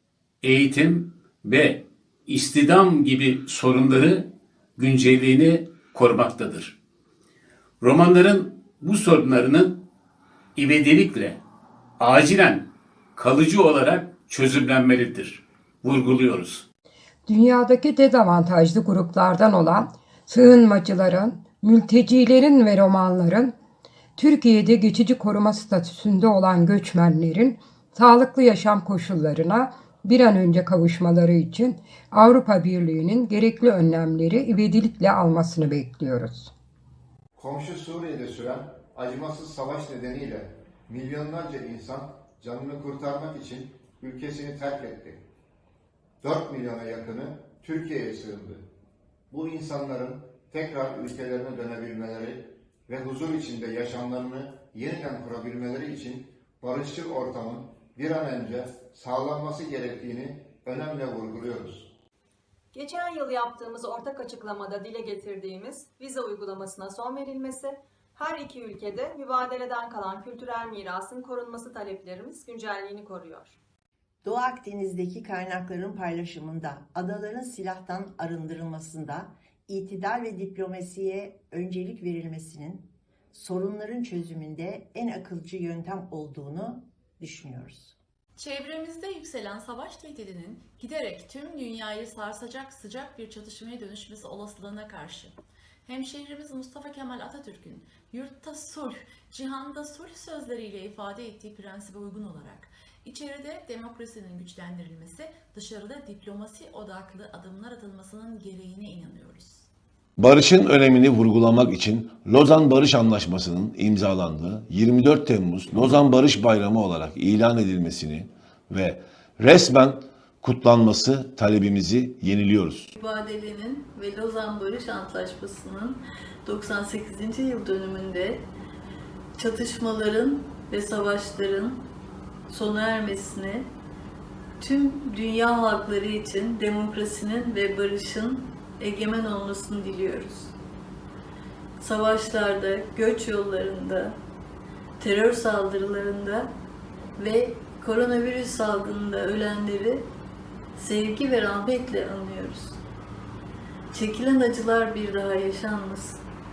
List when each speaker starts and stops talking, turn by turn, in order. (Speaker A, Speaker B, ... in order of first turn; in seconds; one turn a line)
Speaker A: 0.4-6.7
Speaker A: 7.8-9.8
Speaker A: 10.6-11.4
Speaker A: 12.0-16.6
Speaker B: 17.3-23.5
Speaker B: 24.2-36.5
Speaker C: 37.3-45.2
Speaker C: 46.2-48.6
Speaker C: 49.3-61.9
Speaker D: 62.7-73.5
Speaker E: 74.2-87.9
Speaker F: 88.3-109.7
Speaker G: 110.2-122.9
Speaker H: 122.9-128.4
Speaker H: 129.4-131.8
Speaker H: 132.5-133.7
Speaker H: 134.6-140.5
Speaker H: 141.8-144.2
Speaker H: 145.0-146.5
Speaker H: 147.2-150.0
Speaker H: 150.8-152.8
Speaker H: 153.9-156.2